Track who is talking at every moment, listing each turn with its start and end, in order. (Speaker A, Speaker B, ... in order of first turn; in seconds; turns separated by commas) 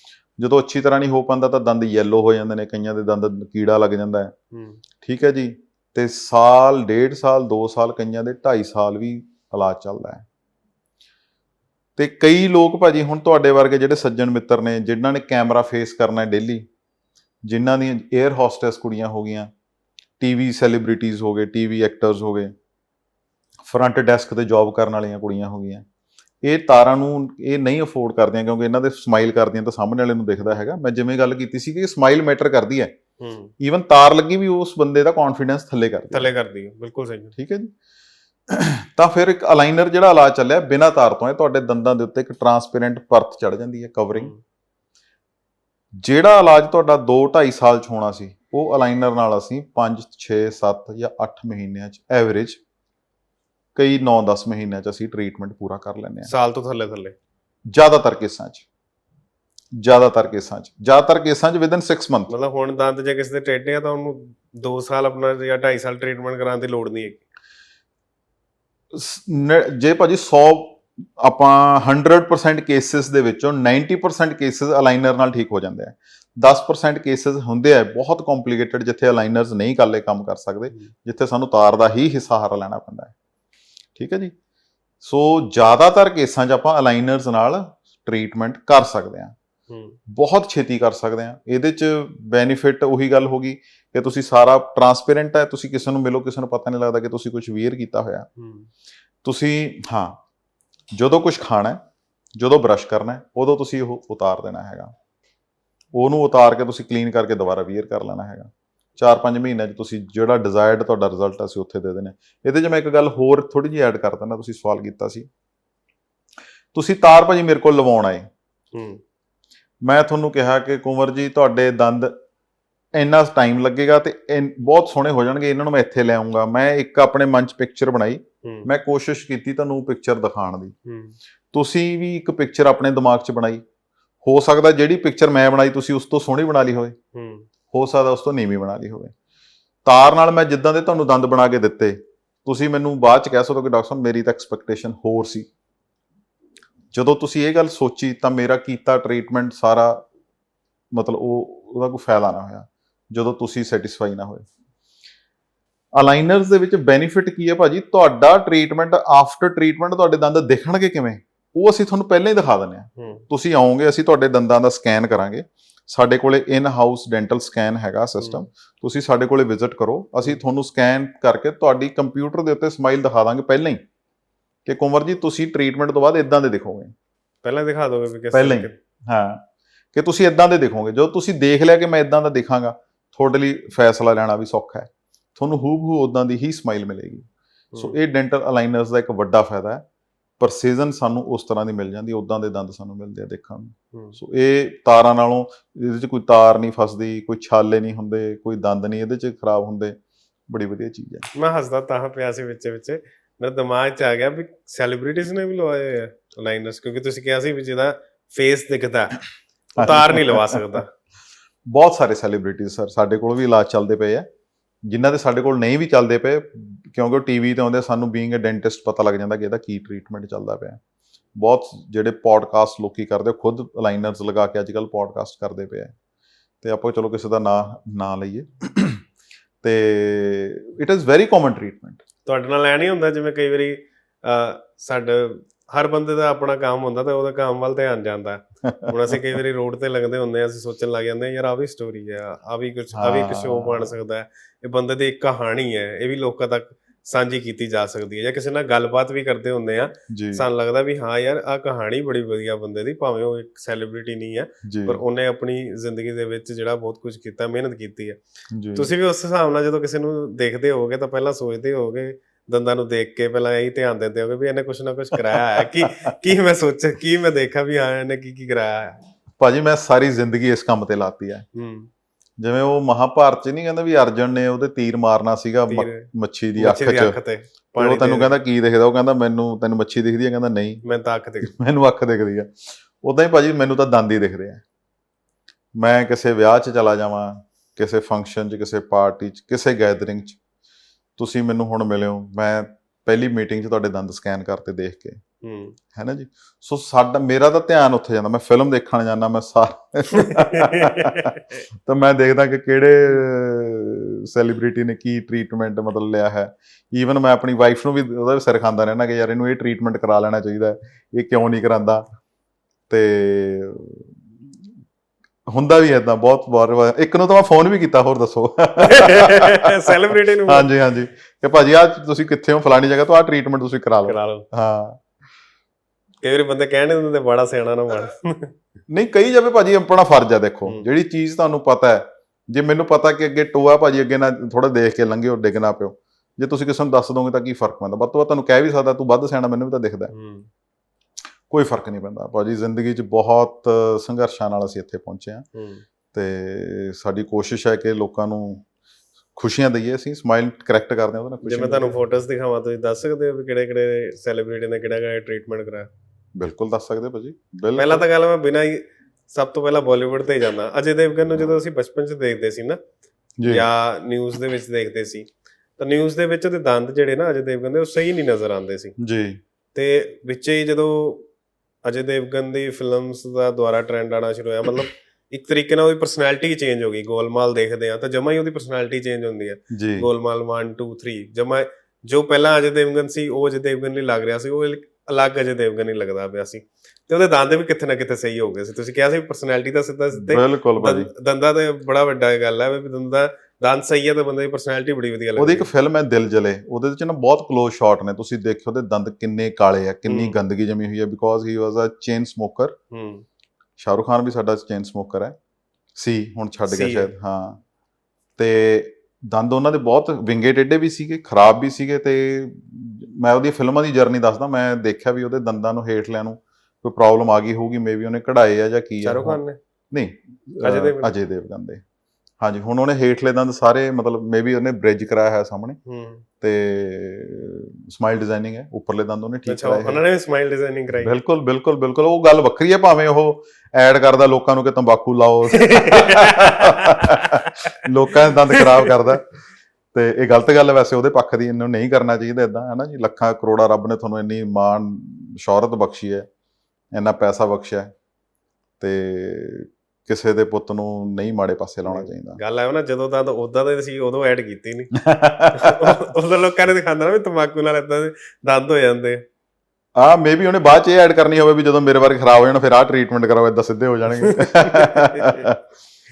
Speaker A: 0.4-4.3, Speaker B: 4.5-4.8, Speaker A: 5.0-10.2, Speaker A: 12.0-16.7, Speaker A: 17.5-19.5, Speaker A: 20.2-22.5, Speaker A: 23.7-25.9, Speaker A: 26.4-32.9, Speaker B: 33.2-33.5, Speaker A: 33.6-36.3, Speaker B: 36.1-37.3, Speaker A: 37.4-37.7, Speaker A: 38.5-44.3, Speaker B: 44.1-44.4, Speaker A: 46.0-52.6, Speaker A: 53.8-56.3, Speaker B: 56.3-57.1, Speaker A: 57.7-58.6, Speaker A: 59.8-62.3, Speaker B: 62.3-67.2, Speaker A: 68.9-83.1, Speaker A: 84.0-84.3, Speaker A: 85.0-89.3, Speaker B: 89.7-90.0, Speaker A: 90.1-98.3, Speaker B: 98.4-98.7, Speaker A: 99.2-100.2, Speaker A: 100.9-101.8, Speaker A: 102.4-104.9, Speaker A: 105.9-115.3, Speaker A: 116.7-118.3, Speaker B: 118.7-119.0, Speaker A: 119.8-122.1, Speaker A: 122.9-130.7, Speaker B: 128.4-128.7, Speaker B: 130.8-131.2, Speaker A: 131.5-133.6, Speaker A: 134.2-137.0, Speaker B: 137.1-137.5, Speaker A: 137.7-139.1, Speaker A: 139.9-145.5, Speaker A: 146.9-150.0, Speaker A: 150.9-154.4, Speaker A: 156.0-173.8, Speaker B: 163.0-163.2, Speaker A: 174.7-176.9, Speaker B: 177.4-178.8, Speaker A: 178.3-179.4, Speaker A: 179.9-189.8, Speaker A: 190.4-200.0, Speaker A: 200.5-201.3, Speaker B: 201.3-209.2, Speaker A: 209.8-210.6, Speaker B: 209.8-210.9, Speaker A: 211.7-214.3, Speaker A: 214.9-220.8, Speaker A: 221.4-225.9, Speaker A: 226.6-229.0, Speaker A: 229.6-232.0, Speaker B: 232.3-258.2, Speaker A: 238.6-239.2, Speaker A: 242.9-243.9, Speaker A: 250.1-250.4, Speaker A: 254.7-255.0, Speaker A: 258.5-258.9, Speaker B: 258.8-269.0, Speaker A: 265.6-265.9, Speaker A: 269.4-271.4, Speaker B: 271.6-271.9, Speaker A: 272.4-277.2, Speaker B: 275.7-278.3, Speaker A: 277.8-280.8, Speaker B: 280.8-281.5, Speaker A: 281.4-284.6, Speaker A: 285.8-290.4, Speaker A: 291.2-295.2, Speaker B: 295.4-295.8, Speaker A: 295.9-312.1, Speaker B: 300.1-301.4, Speaker A: 312.9-314.2, Speaker A: 315.5-319.9, Speaker B: 318.8-320.7, Speaker A: 320.5-325.0, Speaker B: 324.1-324.5, Speaker B: 326.2-328.5, Speaker A: 328.9-340.1, Speaker B: 340.1-340.5, Speaker A: 341.5-345.4, Speaker B: 345.5-345.8, Speaker A: 346.1-348.6, Speaker A: 349.4-352.0, Speaker B: 351.4-355.9, Speaker A: 356.4-358.0, Speaker B: 357.8-362.8, Speaker A: 363.4-363.6, Speaker B: 363.5-365.3, Speaker B: 365.8-368.9, Speaker A: 369.0-369.4, Speaker B: 369.8-371.3, Speaker B: 371.8-395.7, Speaker A: 379.7-380.1, Speaker A: 390.1-391.1, Speaker A: 395.4-402.8, Speaker B: 400.1-400.4, Speaker B: 402.9-403.2, Speaker A: 403.8-405.4, Speaker A: 406.0-407.6, Speaker B: 406.7-407.1, Speaker A: 408.4-419.4, Speaker B: 419.0-419.6, Speaker A: 419.9-421.8, Speaker B: 420.6-421.1, Speaker A: 422.4-425.8, Speaker B: 425.9-426.2, Speaker A: 426.4-430.0, Speaker B: 429.5-431.1, Speaker A: 431.0-439.3, Speaker B: 435.5-437.7, Speaker B: 438.5-439.1, Speaker A: 439.9-446.3, Speaker A: 446.9-447.9, Speaker A: 448.8-452.4, Speaker B: 451.9-459.2, Speaker A: 455.0-456.0, Speaker A: 460.0-465.6, Speaker B: 464.2-465.5